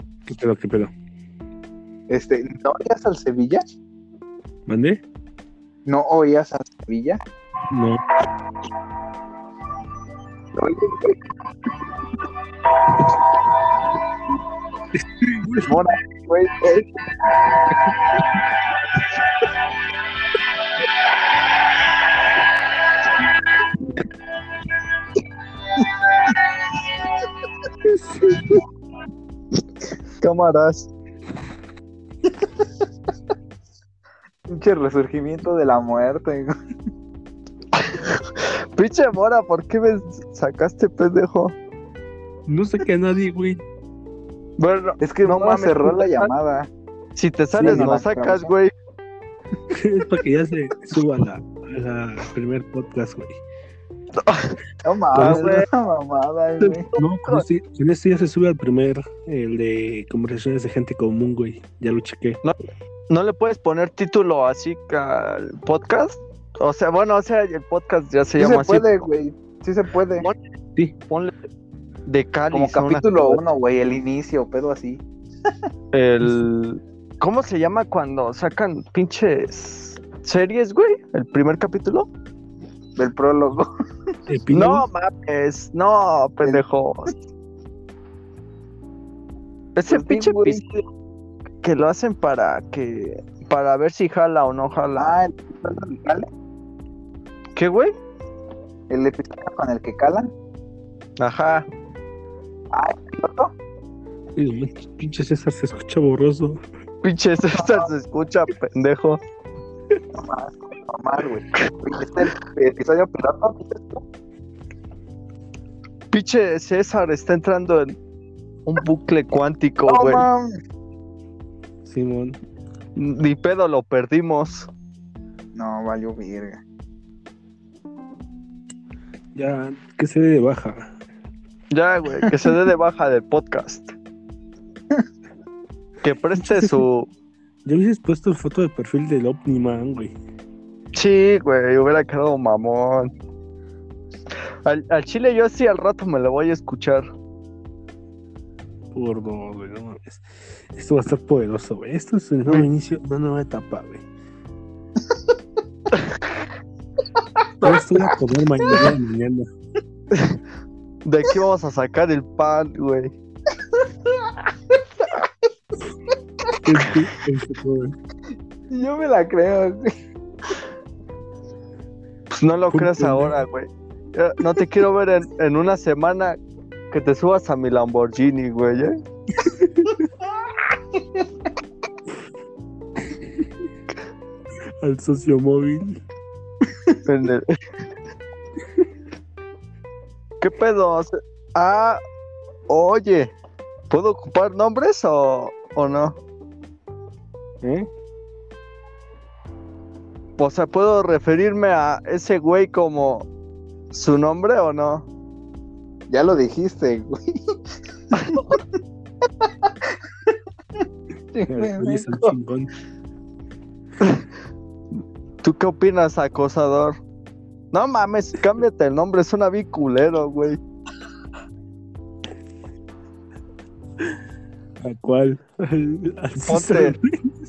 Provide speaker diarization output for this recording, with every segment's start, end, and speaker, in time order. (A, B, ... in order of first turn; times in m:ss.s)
0:00.3-0:00.9 A
0:02.1-0:03.6 B
0:04.7-0:05.0 A
0:05.9-0:07.2 B
0:07.7-0:08.0 A
0:10.6-0:11.2 B
0:15.0-0:15.7 A
0:15.7-0:16.9 B
0:28.1-0:28.5 A
0:30.2-0:30.9 C
0:34.5-0:36.5 B
0:37.8-0:41.6 C
0:42.5-0:43.6 A
0:44.6-0:46.3 C
0:45.0-0:46.7 B
0:47.2-0:48.7 C
0:47.5-0:47.9 A
0:47.6-0:48.5 B
0:49.7-0:53.4 A
0:54.3-0:54.6 C
0:54.8-0:56.8 B
0:55.2-0:55.4 A
0:55.2-0:55.7 C
0:56.6-0:57.5 C
0:57.0-1:02.4 A
1:03.1-1:09.1 C
1:08.4-1:10.3 B
1:12.1-1:13.4 C
1:12.5-1:15.0 B
1:15.9-1:22.1 C
1:23.0-1:23.7 B
1:24.3-1:24.8 A
1:24.5-1:27.2 C
1:29.8-1:30.8 C
1:29.9-1:30.6 B
1:31.6-1:35.2 C
1:35.0-1:36.3 B
1:37.6-1:37.9 C
1:38.9-1:40.3 B
1:41.2-1:41.6 C
1:42.7-1:43.5 B
1:44.4-1:46.6 A
1:47.0-1:49.2 C
1:47.5-1:47.9 B
1:50.2-1:54.0 B
1:56.1-1:58.0 C
1:58.6-2:00.3 C
1:59.9-2:00.5 B
2:01.8-2:02.4 A
2:03.0-2:04.7 C
2:05.6-2:06.6 B
2:09.4-2:10.8 A
2:11.7-2:13.9 C
2:16.0-2:17.1 C
2:17.7-2:20.1 A
2:21.0-2:23.1 C
2:24.7-2:27.1 C
2:28.9-2:34.1 A
2:37.6-2:39.5 A
2:40.1-2:40.4 C
2:41.0-2:43.1 C
2:46.6-2:47.9 A
2:48.7-2:49.9 B
2:52.3-2:56.4 C
2:52.7-2:53.4 A
2:56.9-2:58.9 C
2:59.5-2:59.9 A
3:04.8-3:06.0 A
3:07.0-3:07.4 C
3:10.4-3:12.0 C
3:12.7-3:13.3 C
3:13.9-3:16.2 C
3:17.6-3:17.9 A
3:20.4-3:23.3 C
3:23.9-3:25.1 C
3:26.1-3:27.2 B
3:28.3-3:28.6 B
3:31.3-3:32.3 B
3:31.5-3:32.7 A
3:35.4-3:37.0 C
3:37.7-3:40.6 C
3:44.8-3:47.1 A
3:46.5-3:47.0 C